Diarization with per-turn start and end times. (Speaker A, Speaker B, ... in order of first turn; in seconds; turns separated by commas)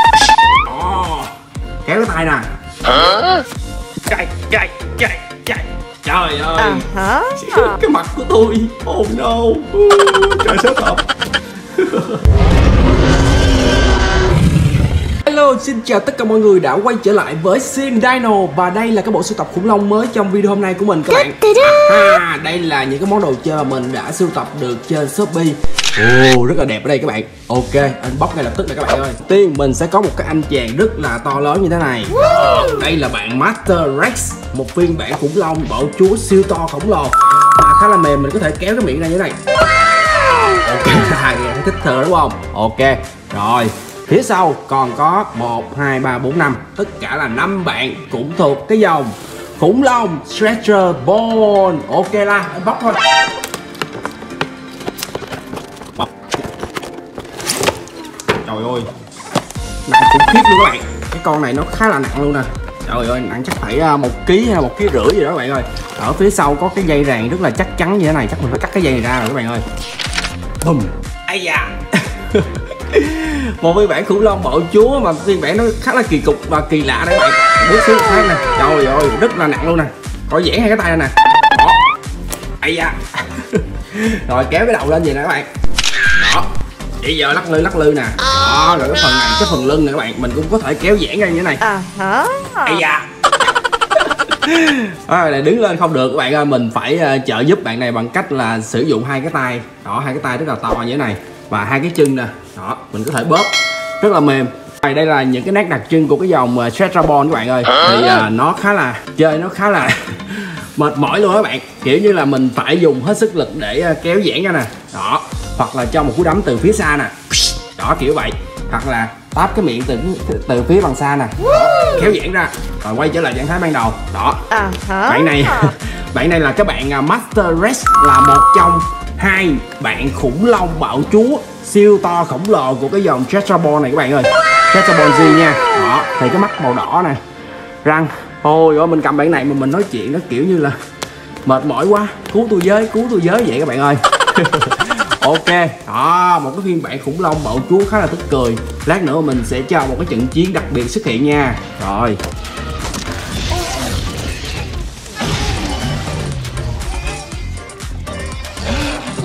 Speaker A: 0.6-1.3, Speaker A: 1.8-3.4, Speaker A: 4.1-11.1, Speaker B: 6.6-7.6, Speaker A: 11.7-12.2, Speaker A: 15.2-39.4, Speaker A: 40.3-53.0, Speaker A: 56.0-56.3, Speaker A: 58.5-58.9, Speaker A: 59.9-69.6, Speaker A: 70.6-81.8, Speaker A: 82.6-85.5, Speaker A: 86.2-86.5, Speaker A: 87.0-91.7, Speaker B: 91.6-92.8, Speaker A: 92.6-124.5, Speaker B: 124.5-125.7, Speaker A: 125.1-137.2, Speaker A: 137.8-140.8, Speaker A: 141.4-152.2